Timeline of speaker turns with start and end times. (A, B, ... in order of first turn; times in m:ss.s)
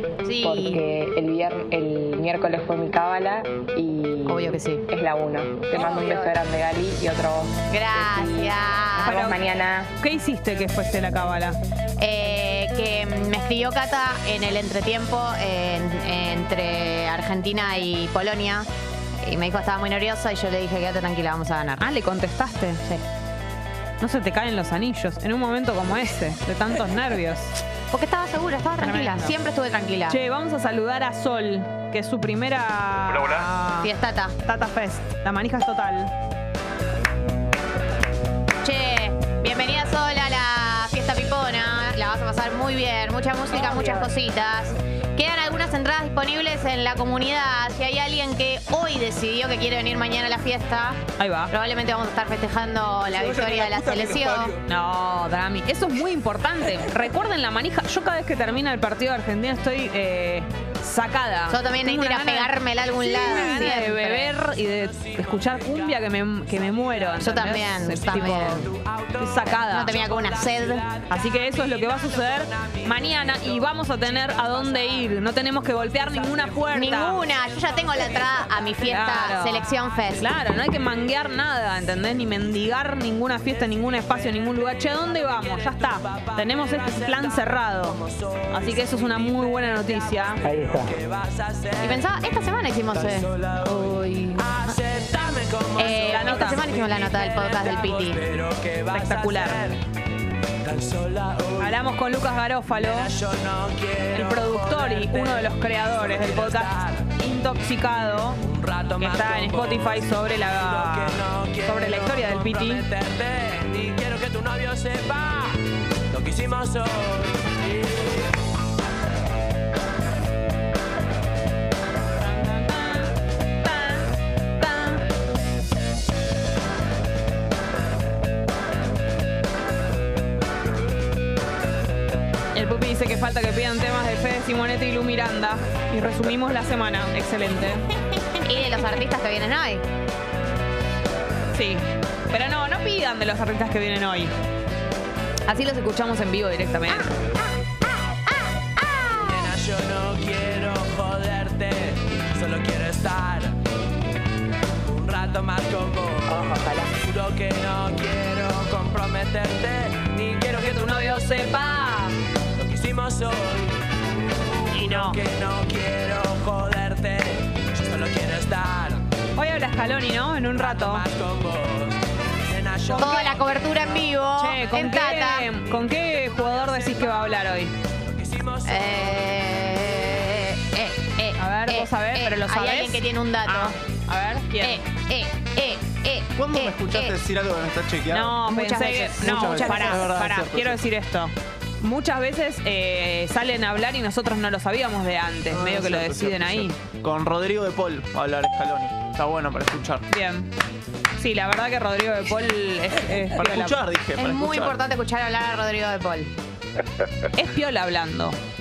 0:00.2-0:00.8 A
0:00.4-0:09.9 B
0:04.3-0:04.8 A
0:05.7-0:06.4 A
0:07.7-0:09.2 A
0:09.0-0:09.4 C
0:10.0-0:11.6 C
0:12.0-0:18.7 A
0:19.2-0:21.8 A
0:21.8-0:22.8 C
0:24.0-0:27.6 C
0:27.9-0:30.2 A
0:28.8-0:29.4 C
0:30.1-0:33.9 C
0:33.8-0:34.4 A
0:34.4-0:36.1 C
0:38.6-0:54.6 A
0:51.2-0:51.5 C
0:54.7-1:10.0 C
1:01.5-1:04.4 A
1:04.7-1:19.0 D
1:07.2-1:08.7 A
1:09.6-1:10.9 A
1:11.1-1:17.3 C
1:16.7-1:20.3 A
1:18.8-1:28.0 C
1:23.5-1:32.1 D
1:28.5-1:30.4 C
1:31.8-1:34.5 A
1:32.9-1:39.8 D
1:35.8-1:38.2 A
1:36.0-1:36.7 C
1:38.9-1:39.6 C
1:40.6-1:41.8 D
1:41.6-1:43.1 C
1:42.8-1:47.1 D
1:44.1-1:48.4 C
1:48.4-1:58.3 D
1:49.0-1:52.9 C
2:02.2-2:04.1 C
2:04.6-2:05.0 C
2:12.5-2:17.9 C
2:18.4-2:19.8 A
2:21.5-2:24.3 C
2:25.5-2:27.1 C
2:28.8-2:29.3 A
2:29.2-2:33.5 D
2:34.8-2:41.7 D
2:40.7-2:42.1 C
2:42.6-2:43.8 D
2:44.7-2:49.0 D
2:44.7-2:45.2 C
2:49.4-2:51.1 C
2:50.5-2:53.4 D
2:52.8-2:53.4 C
2:53.0-2:55.5 A
2:54.3-2:57.7 C
2:55.7-2:57.5 D
2:58.0-3:00.2 D
2:58.6-3:03.8 A
3:01.4-3:04.8 C
3:04.6-3:07.2 A
3:06.4-3:08.4 E
3:08.1-3:16.8 C
3:08.4-3:10.2 A
3:09.2-3:10.8 E
3:15.5-3:20.0 E
3:20.1-3:20.5 C
3:21.2-3:23.8 C
3:23.4-3:24.8 E
3:24.2-3:26.3 A
3:27.4-3:28.4 C